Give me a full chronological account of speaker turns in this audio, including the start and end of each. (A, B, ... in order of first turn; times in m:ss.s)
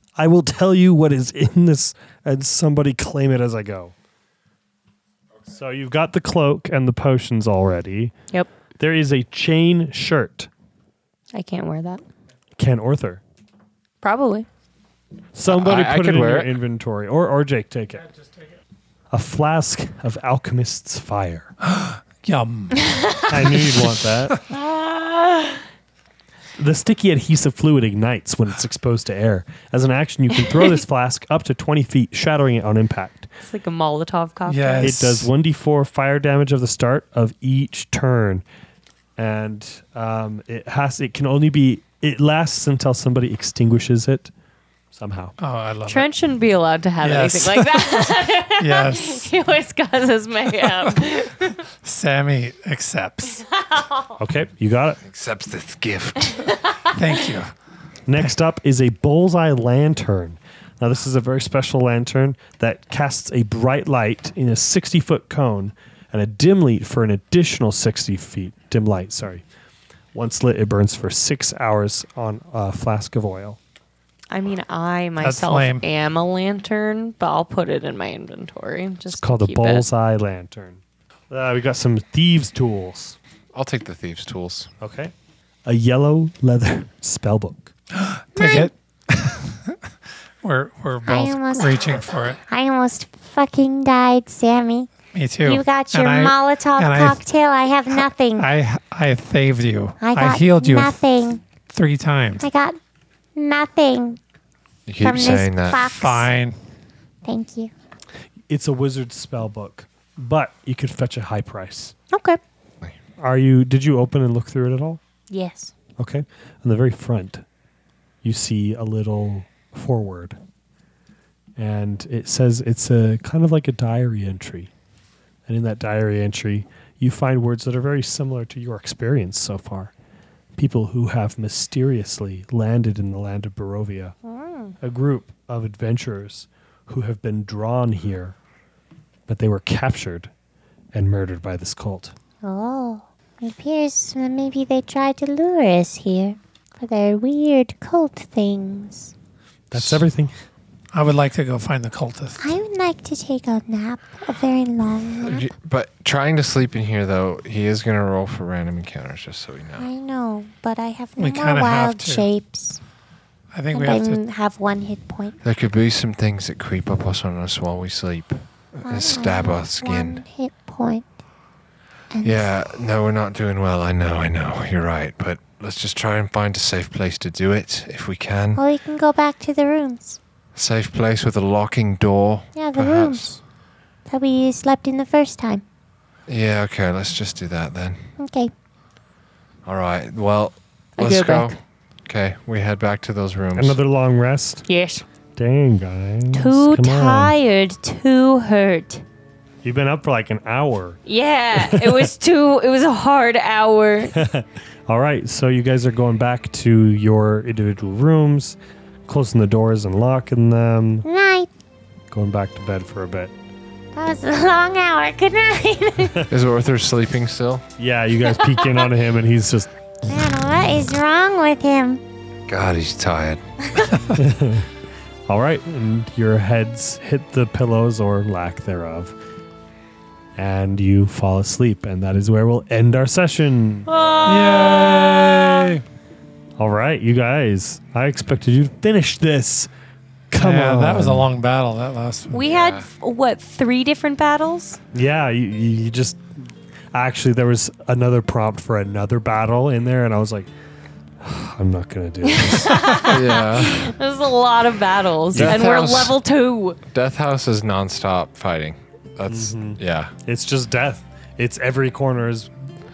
0:00.2-0:03.9 A
0:05.5-0:08.1 A
0:08.8-0:10.5 A
0:11.3-0:12.0 B
0:12.6-0:13.2 A
0:14.0-0:14.5 B
0:15.4-0:18.1 A
0:15.5-0:16.6 C
0:19.1-0:21.5 A
0:21.7-0:22.9 D
0:23.3-0:24.4 A
0:23.5-0:24.4 D
0:24.5-0:25.6 B
0:26.6-0:33.3 A
0:33.4-0:35.0 B
0:34.5-0:35.3 D
0:34.8-0:38.4 A
0:39.2-0:44.3 A
0:44.9-0:45.4 A
0:45.4-0:46.1 D
0:45.9-0:51.6 B
0:47.0-0:49.3 D
0:51.7-0:53.4 D
0:53.4-0:54.2 B
0:54.2-0:55.0 A
0:55.0-0:56.5 C
0:56.4-0:56.9 B
0:56.8-0:57.5 D
0:58.1-1:09.4 A
1:10.1-1:13.6 A
1:14.3-1:19.9 B
1:15.2-1:15.9 D
1:19.2-1:23.2 A
1:23.5-1:24.7 C
1:24.8-1:25.1 A
1:25.6-1:27.7 A
1:28.0-1:29.8 D
1:28.4-1:28.7 E
1:30.4-1:32.4 D
1:31.1-1:38.5 E
1:35.1-1:37.2 D
1:37.9-1:41.0 D
1:40.0-1:41.4 E
1:41.7-1:42.5 D
1:42.4-1:42.8 E
1:43.4-1:44.2 E
1:44.9-1:45.9 C
1:45.0-1:46.3 E
1:45.9-1:46.6 D
1:47.2-1:47.7 E
1:48.5-1:51.9 A
1:52.1-1:52.4 E
1:53.2-1:55.0 A
1:55.3-1:55.7 E
1:56.0-1:57.4 A
1:58.2-2:00.4 A
2:01.6-2:04.7 A
2:05.5-2:09.9 A
2:10.6-2:14.2 A
2:14.2-2:14.8 E
2:14.8-2:18.4 A
2:19.3-2:20.3 A
2:20.9-2:22.1 A
2:22.4-2:29.1 E
2:29.7-2:30.3 A
2:29.7-2:30.1 C
2:30.9-2:32.4 D
2:32.4-2:35.5 E
2:35.2-2:39.9 C
2:39.8-2:42.8 E
2:41.2-2:42.3 D
2:43.5-2:44.2 D
2:43.7-2:45.4 E
2:45.4-2:50.2 C
2:48.8-2:51.1 E
2:52.1-2:52.5 E
2:52.2-2:58.6 C
2:58.6-3:00.2 E
3:00.6-3:03.3 C
3:02.6-3:03.4 E
3:04.1-3:05.6 E
3:06.3-3:08.0 C
3:08.2-3:08.5 E
3:09.6-3:13.8 C
3:11.0-3:11.6 B
3:13.6-3:14.6 A
3:14.7-3:15.0 B
3:15.4-3:17.3 A
3:16.3-3:19.0 B
3:19.6-3:21.0 A
3:21.1-3:24.2 B
3:21.6-3:22.1 A
3:24.2-3:31.1 A
3:31.0-3:31.5 E
3:32.1-3:33.3 A
3:34.0-3:36.3 E
3:36.3-3:37.6 C
3:37.8-3:39.7 A
3:40.1-3:42.0 E
3:42.5-3:44.0 C
3:44.2-3:44.7 A
3:45.3-3:49.1 A
3:50.4-3:53.9 A
3:53.9-3:55.7 B
3:54.3-3:55.8 D
3:56.6-3:59.7 A
4:00.3-4:01.3 A
4:00.4-4:02.4 D
4:02.3-4:04.8 B
4:02.4-4:02.9 C
4:04.9-4:06.3 A
4:06.9-4:10.5 A
4:11.2-4:12.9 A
4:12.2-4:16.8 B
4:13.0-4:13.9 C
4:15.3-4:15.6 A
4:15.3-4:16.2 C
4:16.9-4:20.1 C
4:19.3-4:22.5 A